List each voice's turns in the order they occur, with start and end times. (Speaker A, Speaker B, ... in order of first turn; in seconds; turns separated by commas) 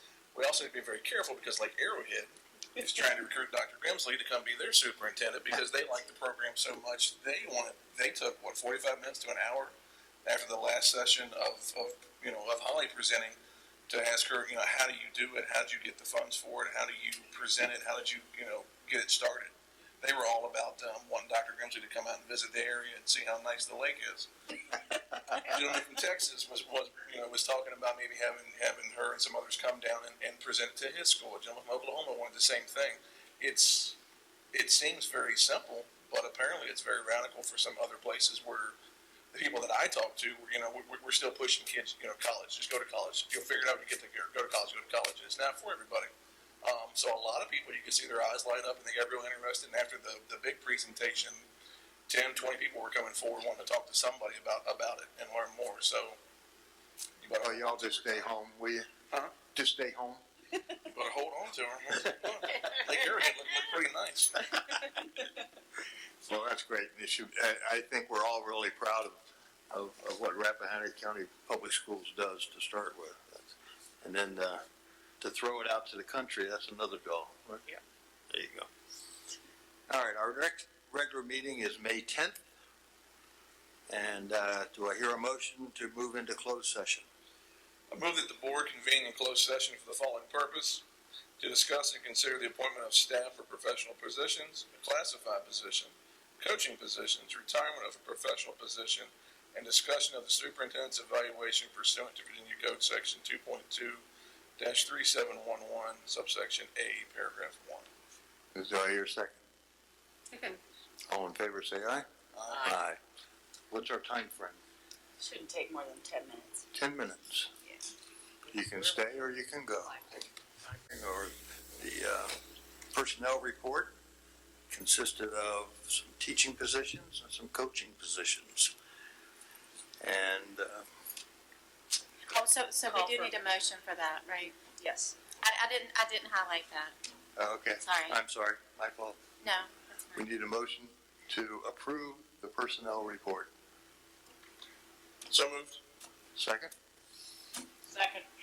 Speaker A: 0.3-9.7, Speaker A: 10.2-13.4, Speaker A: 13.9-24.3, Speaker A: 25.3-34.0, Speaker A: 34.5-38.8, Speaker A: 39.3-46.1, Speaker A: 46.6-51.5, Speaker A: 52.1-56.2, Speaker A: 57.2-58.3, Speaker B: 57.4-58.9, Speaker B: 59.4-60.2, Speaker A: 60.8-64.5, Speaker B: 66.2-69.2, Speaker B: 69.7-73.5, Speaker B: 74.0-74.6, Speaker B: 75.2-77.7, Speaker B: 78.3-78.7, Speaker B: 79.9-82.4, Speaker B: 83.9-87.1, Speaker A: 87.9-90.8, Speaker A: 91.4-104.0, Speaker A: 104.6-107.9, Speaker B: 108.5-109.4, Speaker B: 111.1-112.0, Speaker A: 112.3-112.7, Speaker C: 112.5-112.8, Speaker B: 112.6-113.0, Speaker B: 113.7-114.6, Speaker C: 115.2-116.6, Speaker B: 116.7-117.5, Speaker C: 118.5-120.8, Speaker B: 118.5-120.0, Speaker B: 120.9-122.3, Speaker B: 122.9-123.9, Speaker B: 124.7-128.7, Speaker B: 130.0-130.9, Speaker D: 132.3-134.6, Speaker C: 132.8-133.4, Speaker C: 134.7-135.2, Speaker D: 135.3-136.9, Speaker B: 137.3-139.2, Speaker D: 137.8-138.2, Speaker D: 139.4-140.2, Speaker B: 140.1-143.5, Speaker A: 145.3-145.8, Speaker B: 146.3-146.7, Speaker C: 147.9-148.2